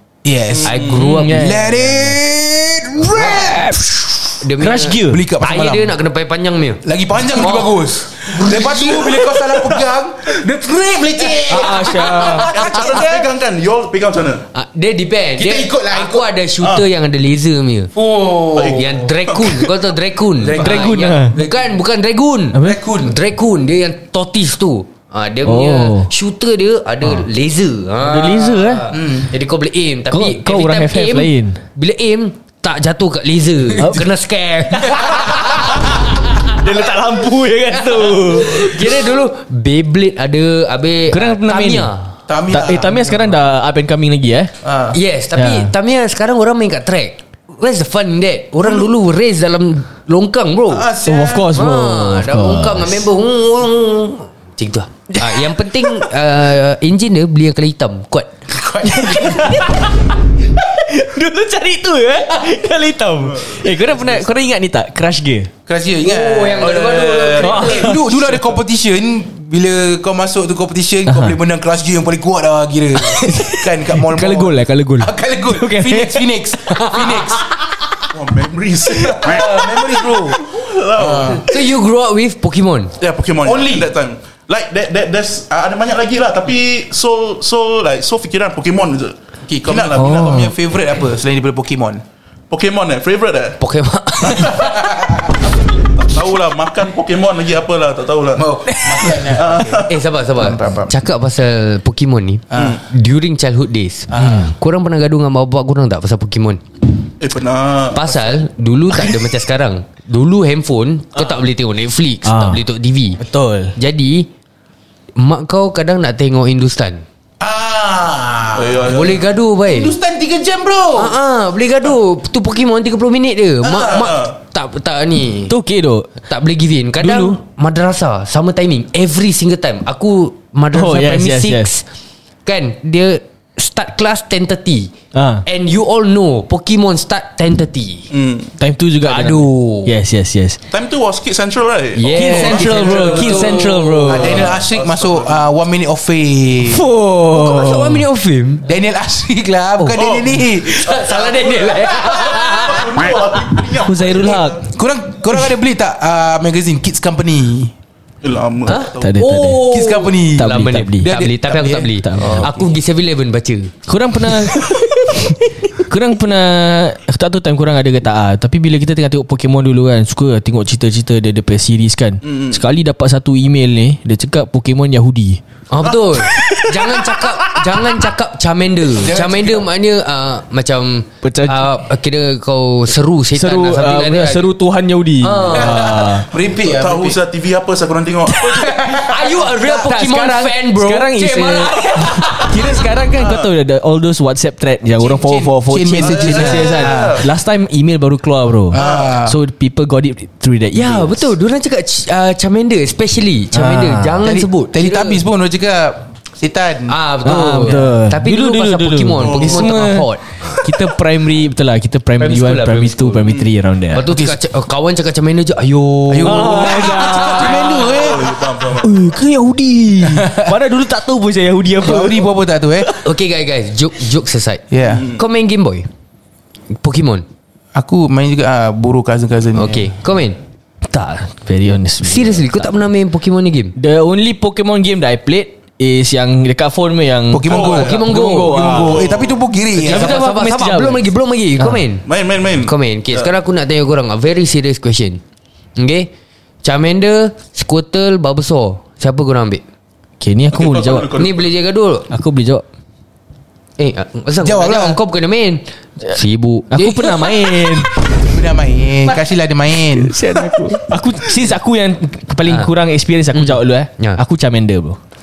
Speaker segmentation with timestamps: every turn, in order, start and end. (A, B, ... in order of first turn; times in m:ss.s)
0:00.2-0:04.4 A
0:00.5-0:01.1 B
0:00.6-0:01.4 C
0:01.0-0:02.1 D
0:03.1-0:03.5 C
0:04.4-0:09.2 C
0:04.6-0:05.2 D
0:05.0-0:06.0 A
0:06.8-0:13.3 A
0:11.5-0:12.5 D
0:11.5-0:12.2 C
0:12.2-0:14.5 B
0:14.5-0:17.9 C
0:15.4-0:16.3 A
0:17.9-0:19.0 A
0:18.6-0:19.4 B
0:18.6-0:36.0 C
0:20.4-0:21.6 A
0:20.6-0:21.4 D
0:22.5-0:22.8 D
0:22.6-0:23.2 A
0:25.4-0:26.1 D
0:28.0-0:28.9 D
0:28.9-0:29.3 A
0:30.1-0:31.6 D
0:33.8-0:34.1 D
0:34.7-0:39.0 D
0:37.7-0:42.0 C
0:41.1-0:41.9 D
0:42.3-0:43.4 A
0:42.5-0:44.5 D
0:44.6-0:45.0 A
0:44.9-0:50.9 C
0:45.4-0:45.7 D
0:50.7-0:51.5 A
0:51.0-0:53.0 D
0:51.5-0:58.4 C
0:55.1-0:56.1 D
0:58.5-0:59.8 A
0:58.9-1:05.5 D
1:03.4-1:04.1 B
1:05.7-1:17.5 A
1:06.0-1:08.0 C
1:06.6-1:07.6 B
1:07.4-1:08.0 D
1:11.1-1:11.4 D
1:13.2-1:16.1 D
1:16.8-1:17.4 C
1:18.1-1:21.5 B
1:19.0-1:21.5 A
1:21.3-1:22.9 C
1:23.0-1:30.4 B
1:23.4-1:23.9 A
1:29.5-1:32.0 A
1:30.0-1:30.5 D
1:32.5-1:33.6 B
1:33.6-1:34.8 C
1:34.2-1:34.6 B
1:34.6-1:35.5 A
1:35.9-1:38.5 B
1:38.4-1:41.0 A
1:39.2-1:39.9 B
1:39.9-1:46.6 C
1:42.5-1:42.8 A
1:42.6-1:42.8 B
1:44.1-1:44.5 A
1:44.2-1:44.5 D
1:47.2-1:48.4 B
1:48.0-1:53.2 C
1:52.3-1:52.6 D
1:53.2-1:53.8 D
1:53.8-1:54.3 C
1:55.2-1:57.0 C
1:57.4-1:59.1 A
1:58.5-1:59.2 B
1:58.9-2:00.0 C
1:59.7-2:01.2 A
2:01.0-2:05.6 C
2:03.6-2:04.4 B
2:05.5-2:06.1 D
2:06.2-2:11.8 C
2:07.0-2:07.4 D
2:10.7-2:11.7 D
2:12.4-2:14.9 C
2:15.1-2:15.4 D
2:15.5-2:18.1 C
2:18.1-2:18.5 B
2:18.6-2:20.6 D
2:19.0-2:19.9 C
2:20.7-2:23.6 B
2:22.0-2:24.5 C
2:22.1-2:26.8 A
2:22.1-2:24.3 D
2:24.1-2:25.4 B
2:26.7-2:28.0 D
2:27.2-2:28.6 C
2:28.6-2:31.0 A
2:30.0-2:34.7 B
2:30.7-2:33.2 C
2:33.8-2:34.7 D
2:34.7-2:37.7 A
2:38.2-2:39.1 B
2:38.7-2:43.7 C
2:39.0-2:39.7 D
2:39.7-2:41.9 A
2:40.4-2:41.2 D
2:42.0-2:42.7 D
2:43.9-2:55.4 D
2:52.2-2:52.6 B
2:55.7-3:04.5 C
2:56.2-2:57.2 D
2:58.9-2:59.7 A
3:01.2-3:01.8 D
3:03.3-3:06.3 D
3:05.2-3:05.9 C
3:05.5-3:07.2 A
3:06.6-3:08.8 B
3:08.4-3:10.1 A
3:08.9-3:12.4 C
3:09.8-3:21.3 D
3:12.4-3:13.4 A
3:13.2-3:13.5 B
3:15.0-3:17.2 A
3:16.0-3:17.3 B
3:18.7-3:19.4 A
3:18.8-3:19.2 B
3:20.7-3:25.2 C
3:23.5-3:24.2 D
3:24.2-3:27.9 A
3:26.9-3:30.7 C
3:27.2-3:34.1 D
3:29.2-3:29.8 B
3:32.2-3:33.4 C
3:33.9-3:37.5 C
3:34.1-3:34.4 A
3:36.1-3:38.4 A
3:36.2-3:37.9 D
3:37.7-3:39.0 B
3:38.8-3:42.3 D
3:40.0-3:40.6 A
3:41.8-3:43.0 A
3:43.0-3:45.9 C
3:44.7-3:45.1 A
3:44.9-3:45.2 B
3:46.8-3:47.2 C
3:47.7-3:49.9 A
3:49.6-3:50.4 C
3:50.8-3:52.6 D
3:52.0-3:53.8 C
3:53.8-3:59.0 D
3:57.3-4:00.2 A
3:57.5-3:58.0 B
3:57.6-3:58.8 C
3:58.7-3:59.4 B
3:59.8-4:01.8 D
3:59.8-4:02.0 C
4:02.1-4:03.3 B
4:02.6-4:05.2 C
4:05.8-4:06.1 C
4:06.6-4:09.6 C
4:10.2-4:11.2 D
4:10.5-4:11.5 B
4:11.2-4:12.1 C
4:12.1-4:12.6 D
4:13.8-4:17.4 C
4:14.4-4:15.0 A
4:16.7-4:18.0 D
4:18.1-4:20.3 A
4:19.8-4:25.0 D
4:22.5-4:22.7 C
4:23.3-4:24.2 C